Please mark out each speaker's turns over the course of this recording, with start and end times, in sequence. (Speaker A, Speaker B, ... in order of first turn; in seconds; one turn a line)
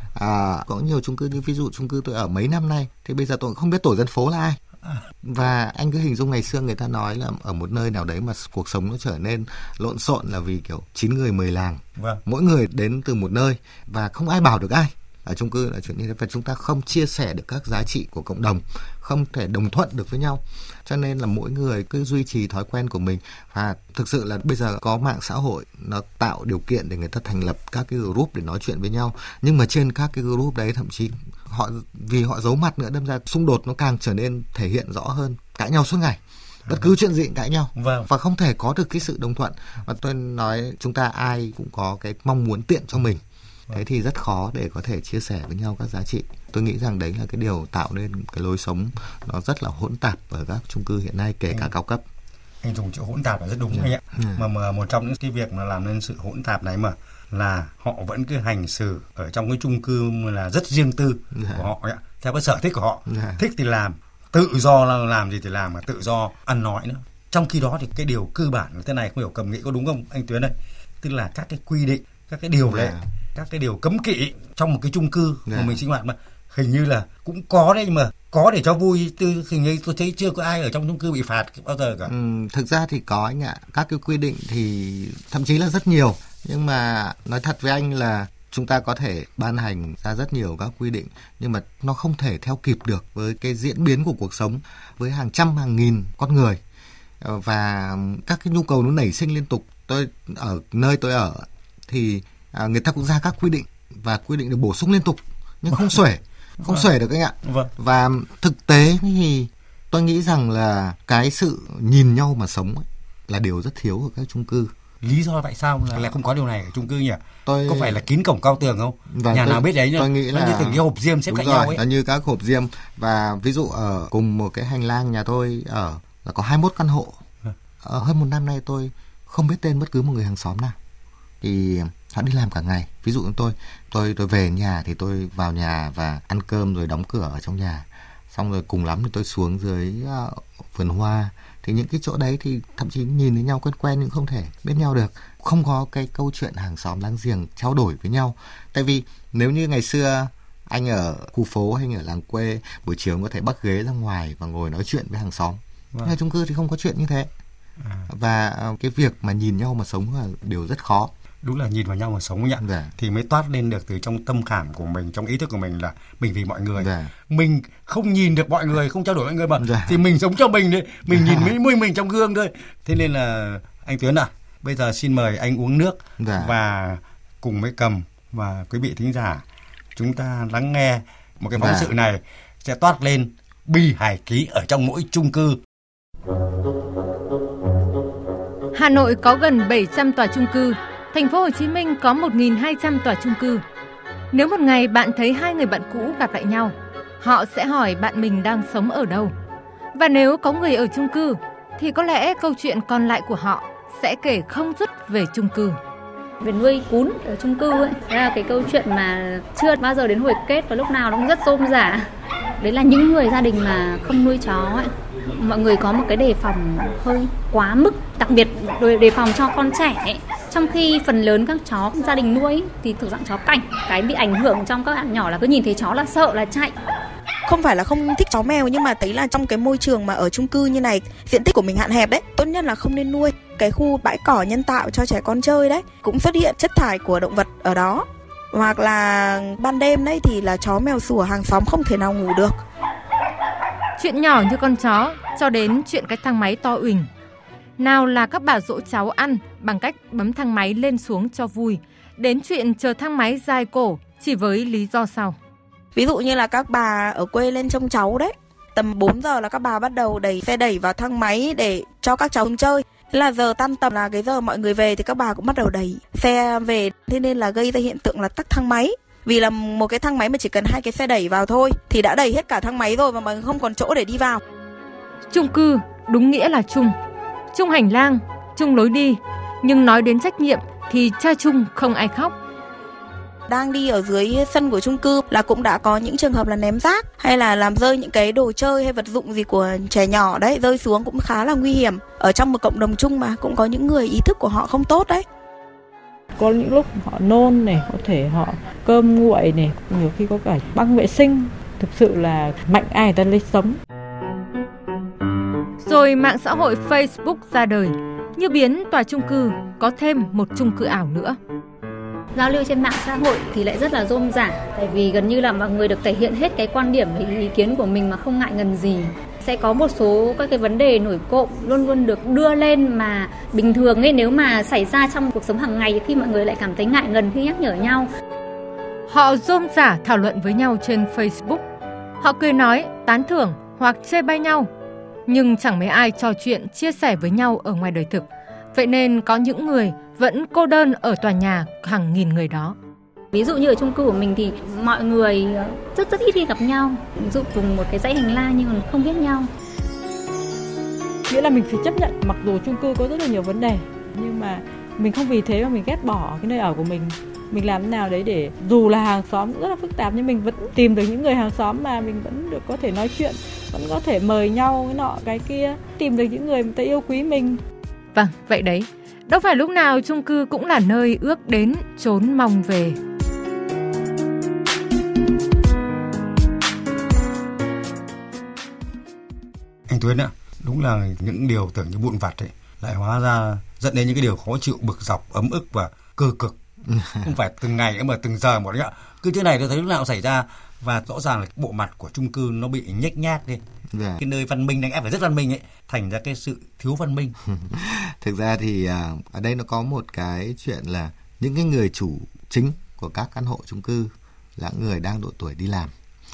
Speaker A: 0.1-4.6
Speaker A: 5.2-52.0
Speaker B: 37.8-38.1
Speaker B: 52.6-82.1
Speaker A: 53.7-54.4
Speaker A: 61.3-61.7
Speaker A: 63.1-63.4
Speaker A: 72.7-73.0
Speaker A: 75.5-75.8
Speaker A: 82.1-96.6
Speaker A: 97.2-114.7
Speaker B: 105.7-106.0
Speaker B: 106.6-106.9
Speaker B: 107.5-107.7
Speaker B: 115.0-121.8
Speaker A: 117.5-118.0
Speaker A: 119.1-127.2
Speaker A: 127.8-130.8
Speaker A: 131.4-157.3
Speaker A: 158.1-161.1
Speaker B: 161.4-179.4
Speaker A: 162.6-162.9
Speaker A: 166.8-167.1
Speaker A: 169.6-170.0
Speaker A: 171.1-171.5
Speaker A: 176.2-176.6
Speaker B: 180.0-185.6
Speaker A: 181.6-181.9
Speaker C: 188.7-193.6
Speaker C: 194.3-199.3
Speaker C: 199.9-205.8
Speaker D: 206.4-212.1
Speaker D: 212.6-226.7
Speaker E: 227.5-242.6
Speaker C: 244.0-247.1
Speaker C: 247.8-255.4
Speaker E: 256.0-274.4
Speaker C: 275.3-276.9
Speaker C: 277.5-282.4
Speaker E: 283.5-295.2
Speaker F: 296.4-303.8
Speaker C: 305.8-311.4
Speaker D: 312.4-328.1
Speaker C: 329.1-331.6
Speaker C: 332.2-334.7
Speaker C: 335.3-342.8
Speaker D: 343.3-349.5
Speaker F: 351.3-367.6
Speaker C: 368.1-373.0
Speaker B: 379.9-386.6
Speaker A: 386.9-387.3
Speaker B: 387.2-393.6
Speaker A: 393.9-394.2
Speaker B: 394.2-397.4
Speaker A: 397.5-405.9